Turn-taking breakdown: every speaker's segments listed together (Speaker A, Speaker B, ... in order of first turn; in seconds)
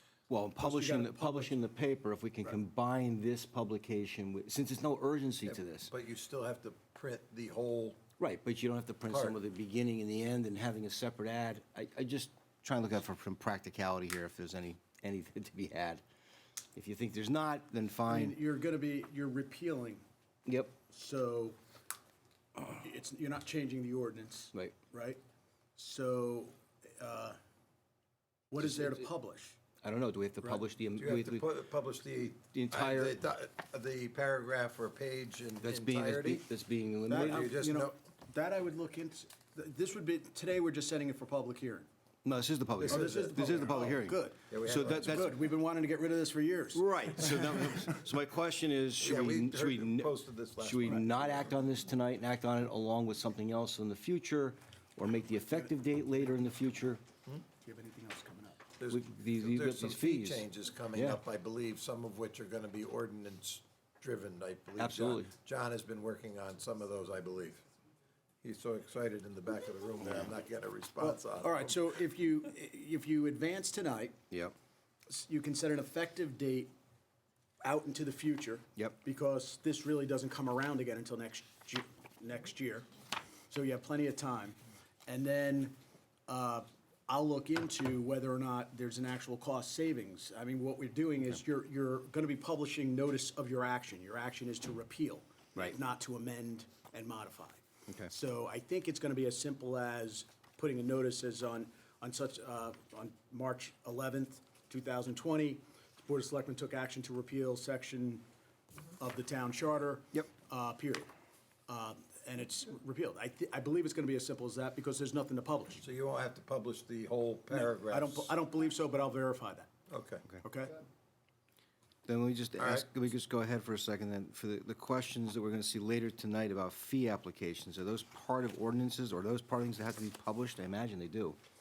Speaker A: 0.3-5.9, 8.2-16.0, 16.8-18.4, 20.5-20.8, 29.8-31.5, 32.5-33.2, 35.6-37.5, 42.2-45.4, 46.7-57.0, 58.9-61.2, 64.8-65.3, 122.1-131.4
Speaker B: 0.6-1.6, 18.1-20.0, 20.9-21.6, 22.7-25.2, 25.8-27.4, 28.5-29.6, 37.1-41.9, 42.9-47.3, 57.6-58.7, 71.0-74.2, 75.1-76.7, 77.6-82.9, 83.5-108.2, 109.0-111.1, 111.7-115.8, 117.5-119.7, 120.4-120.8
Speaker C: 5.5-8.0, 9.1-9.4, 31.0-36.5, 37.2-37.9, 42.8-43.3, 44.5-45.2, 49.0-51.5, 58.8-67.6, 68.4-71.8, 115.8-118.3, 119.9-120.2, 122.6-122.9